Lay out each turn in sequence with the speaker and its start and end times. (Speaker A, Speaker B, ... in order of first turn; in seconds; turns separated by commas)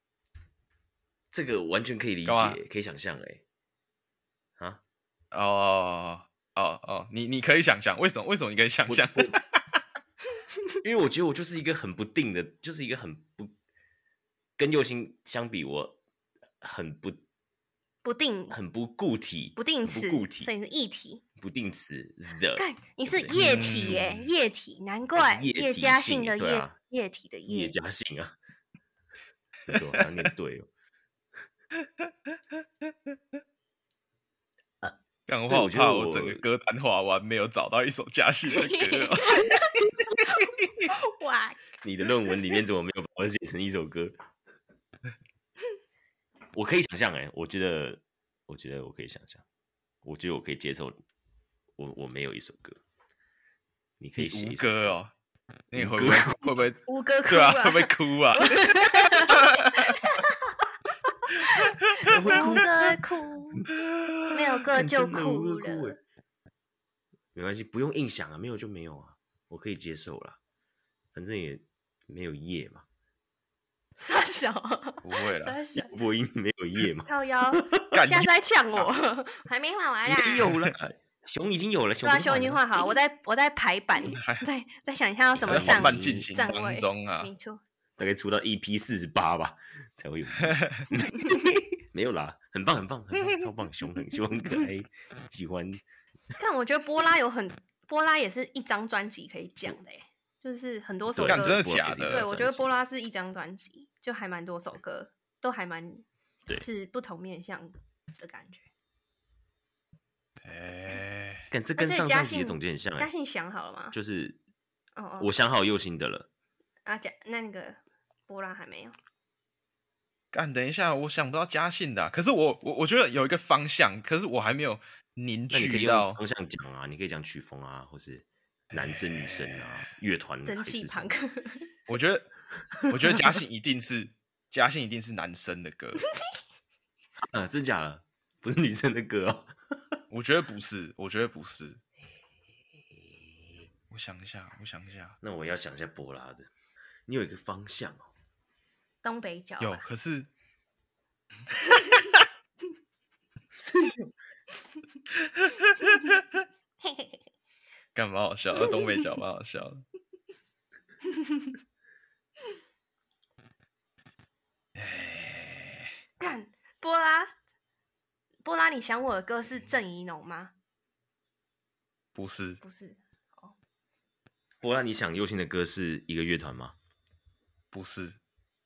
Speaker A: 1.3-3.4, Speaker B: 2.2-2.6, Speaker B: 5.3-9.5, Speaker A: 8.9-9.4, Speaker A: 10.8-13.5, Speaker A: 14.6-16.0, Speaker A: 16.6-17.2, Speaker C: 18.0-18.6, Speaker A: 18.5-20.5, Speaker C: 19.6-21.2, Speaker A: 21.4-24.2, Speaker C: 22.6-27.8, Speaker B: 23.3-24.2, Speaker A: 25.2-26.8, Speaker A: 27.5-28.4, Speaker A: 29.7-30.7, Speaker B: 29.7-30.0, Speaker B: 35.3-39.7, Speaker A: 35.5-36.4, Speaker C: 38.5-41.7, Speaker B: 40.4-40.9, Speaker A: 41.8-44.1, Speaker A: 46.5-49.4, Speaker A: 50.0-51.0, Speaker A: 51.8-52.8, Speaker A: 54.0-55.0, Speaker B: 54.2-55.1, Speaker B: 55.7-59.9, Speaker A: 55.8-56.6, Speaker C: 56.9-60.3, Speaker C: 61.4-63.6, Speaker B: 61.5-62.5, Speaker A: 62.0-63.0, Speaker A: 63.5-66.0, Speaker C: 64.3-66.0, Speaker A: 67.3-70.4, Speaker A: 71.1-72.9, Speaker C: 74.0-75.9, Speaker B: 75.0-75.6, Speaker A: 75.8-77.9, Speaker C: 77.1-80.5, Speaker B: 77.9-78.3, Speaker A: 80.1-82.9, Speaker C: 82.0-87.6, Speaker B: 84.0-84.5, Speaker A: 85.3-86.3, Speaker B: 85.5-87.3, Speaker A: 88.0-95.8, Speaker B: 90.5-90.8, Speaker C: 96.4-108.7, Speaker A: 101.1-102.8, Speaker B: 101.2-102.2, Speaker B: 110.4-111.5, Speaker A: 111.5-113.1, Speaker C: 111.8-114.0, Speaker A: 113.9-114.4, Speaker C: 115.0-115.3, Speaker A: 115.2-116.3, Speaker C: 116.9-119.0, Speaker B: 120.3-126.2, Speaker A: 125.5-131.2, Speaker B: 128.7-129.9, Speaker C: 130.4-131.7, Speaker B: 131.9-132.3, Speaker B: 132.8-136.0, Speaker A: 132.9-133.2, Speaker A: 137.2-140.0, Speaker B: 140.1-141.8, Speaker A: 142.9-143.2, Speaker B: 143.9-145.2, Speaker A: 145.2-146.5, Speaker A: 147.1-148.1, Speaker C: 149.0-149.8, Speaker B: 149.6-150.3, Speaker B: 151.7-152.2, Speaker A: 153.5-154.1, Speaker B: 155.2-156.2, Speaker B: 157.9-159.8, Speaker C: 161.1-161.5, Speaker B: 164.8-165.9, Speaker C: 166.2-167.3, Speaker C: 168.4-170.5, Speaker B: 172.2-172.6, Speaker C: 172.6-173.5, Speaker A: 174.6-176.8, Speaker B: 177.7-178.2